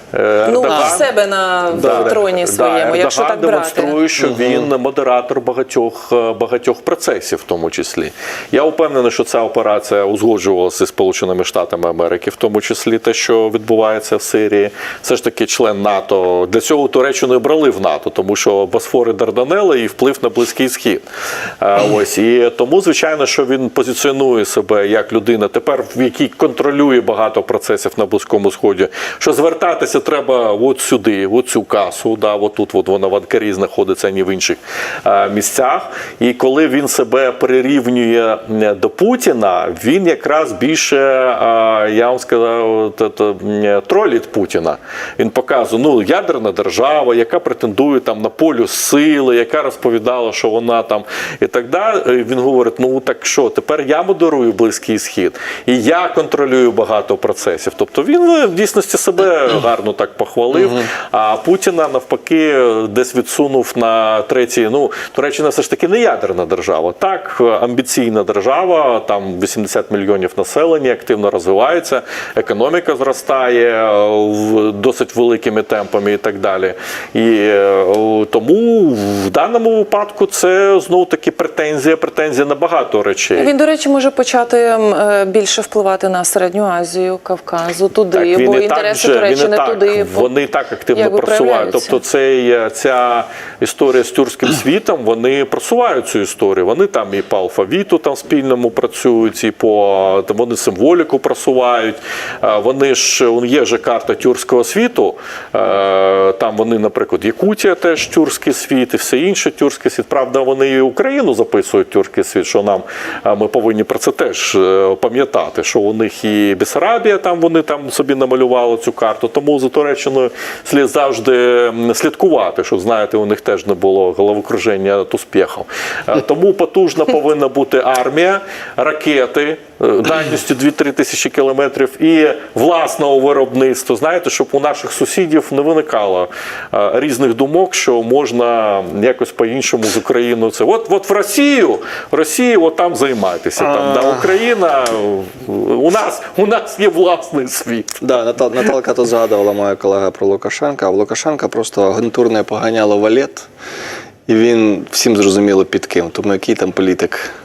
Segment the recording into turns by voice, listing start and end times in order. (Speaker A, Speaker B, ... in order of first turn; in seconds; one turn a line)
Speaker A: 0.1-1.1
Speaker B: 0.4-4.0
Speaker C: 0.7-1.0
Speaker A: 1.7-21.0
Speaker C: 1.7-2.2
Speaker C: 4.2-4.7
Speaker A: 21.6-83.5
Speaker B: 83.3-90.3
Speaker A: 88.1-148.1
Speaker B: 90.9-92.0
Speaker C: 143.6-144.3
Speaker C: 148.0-153.5
Speaker C: 154.3-157.3